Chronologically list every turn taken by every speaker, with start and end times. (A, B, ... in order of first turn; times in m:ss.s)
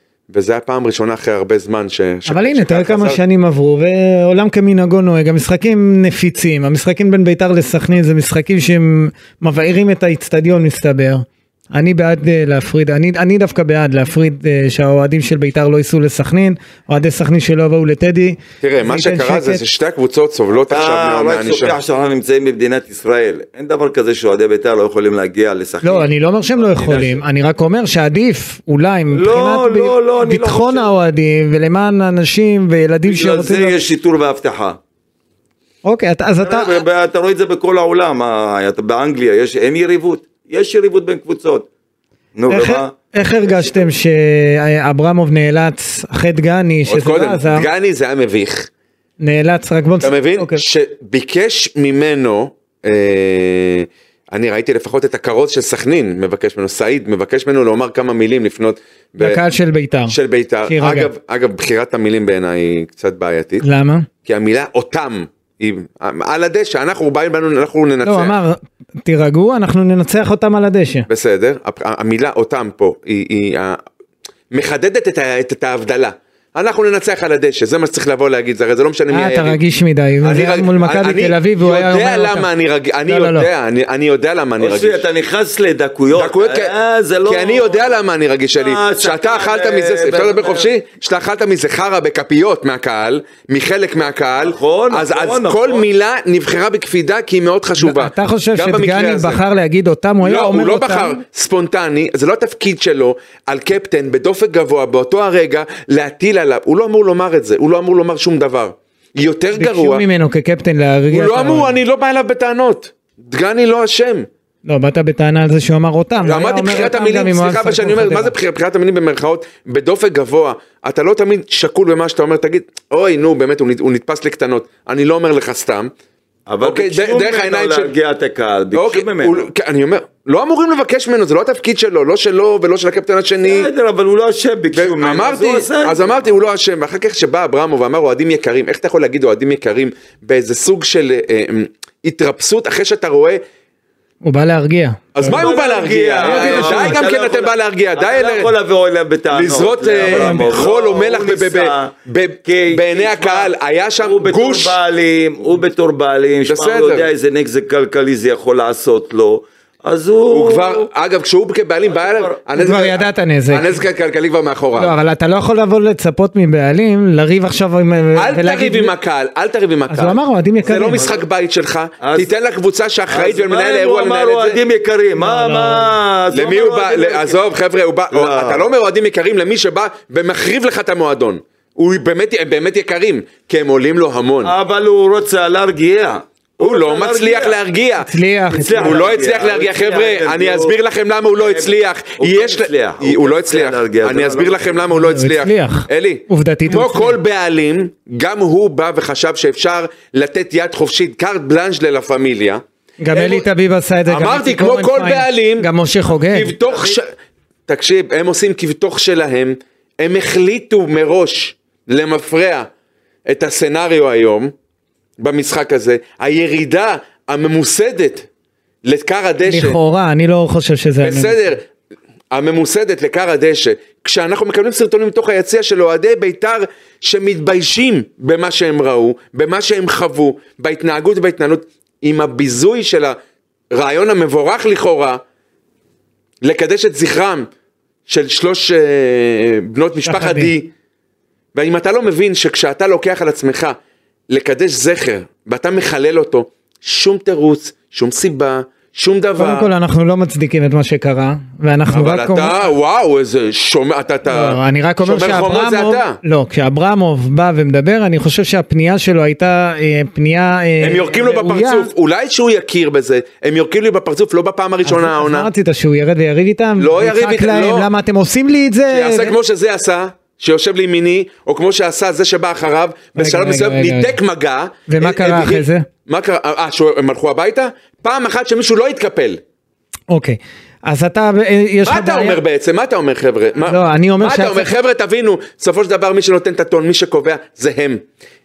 0:00.3-0:03.2 A
0:02.3-0:19.6 B
0:18.6-0:21.8 A
0:20.6-0:27.2 C
0:25.8-0:33.8 B
0:29.1-0:30.9 C
0:33.0-0:34.8 C
0:35.8-0:36.8 B
0:36.4-0:41.7 C
0:42.3-0:42.9 C
0:42.5-0:47.7 B
0:43.4-0:43.9 C
0:46.9-0:48.7 A
0:49.2-0:50.6 B
0:50.0-0:59.4 A
0:59.2-1:00.1 B
1:00.1-1:03.6 A
1:00.7-1:01.1 B
1:03.6-1:04.1 B
1:04.2-1:08.3 A
1:08.0-1:11.1 B
1:11.1-1:13.8 A
1:14.5-1:19.6 A
1:19.1-1:22.5 B
1:20.2-1:25.0 A
1:23.1-1:23.5 B
1:24.6-1:28.0 C
1:26.1-1:26.7 A
1:27.2-1:39.4 A
1:28.5-1:30.7 C
1:34.4-1:35.9 C
1:37.8-1:41.2 B
1:40.2-1:50.0 A
1:49.5-1:51.8 B
1:51.1-1:54.3 A
1:54.6-1:58.3 B
1:56.2-2:05.9 A
2:06.5-2:09.5 C
2:06.6-2:07.9 A
2:08.7-2:13.7 A
2:13.4-2:16.2 C
2:14.7-2:23.4 A
2:24.2-2:25.5 B
2:25.2-2:28.5 A
2:25.3-2:31.9 C
2:26.2-2:27.0 B
2:29.3-2:34.8 A
2:30.0-2:30.5 B
2:32.4-2:40.9 C
2:36.5-2:37.0 A
2:40.3-2:44.9 A
2:41.9-2:42.4 C
2:42.6-2:43.8 B
2:44.8-2:48.9 B
2:48.2-2:54.6 A
2:49.9-2:51.1 B
2:50.9-2:51.2 C
2:52.0-2:52.3 C
2:53.1-2:57.4 C
2:55.2-2:55.9 B
2:56.3-3:04.5 A
2:58.1-2:58.7 C
3:04.4-3:07.6 C
3:06.6-3:08.1 A
3:08.0-3:09.1 B
3:08.5-3:10.8 C
3:08.7-3:23.4 A
3:11.4-3:14.8 C
3:14.9-3:17.2 B
3:23.0-3:26.6 B
3:24.1-3:27.1 A
3:27.7-3:32.7 A
3:33.3-3:34.5 A
3:35.2-3:38.3 A
3:38.8-3:39.8 A
3:39.4-3:41.6 B
3:41.0-3:41.6 A
3:42.3-3:53.2 A
3:53.7-3:55.2 A
3:56.4-3:57.5 A
3:58.1-4:00.7 A
4:00.0-4:00.5 B
4:01.5-4:03.8 A
4:04.3-4:09.7 A
4:09.4-4:12.7 B
4:11.9-4:16.2 A
4:14.2-4:21.9 B
4:20.8-4:25.5 A
4:24.8-4:29.3 B
4:26.8-4:27.9 A
4:28.9-4:39.4 A
4:33.2-4:34.2 B
4:34.9-4:35.9 B
4:40.1-4:42.4 B
4:41.8-4:48.0 A
4:43.7-4:44.7 B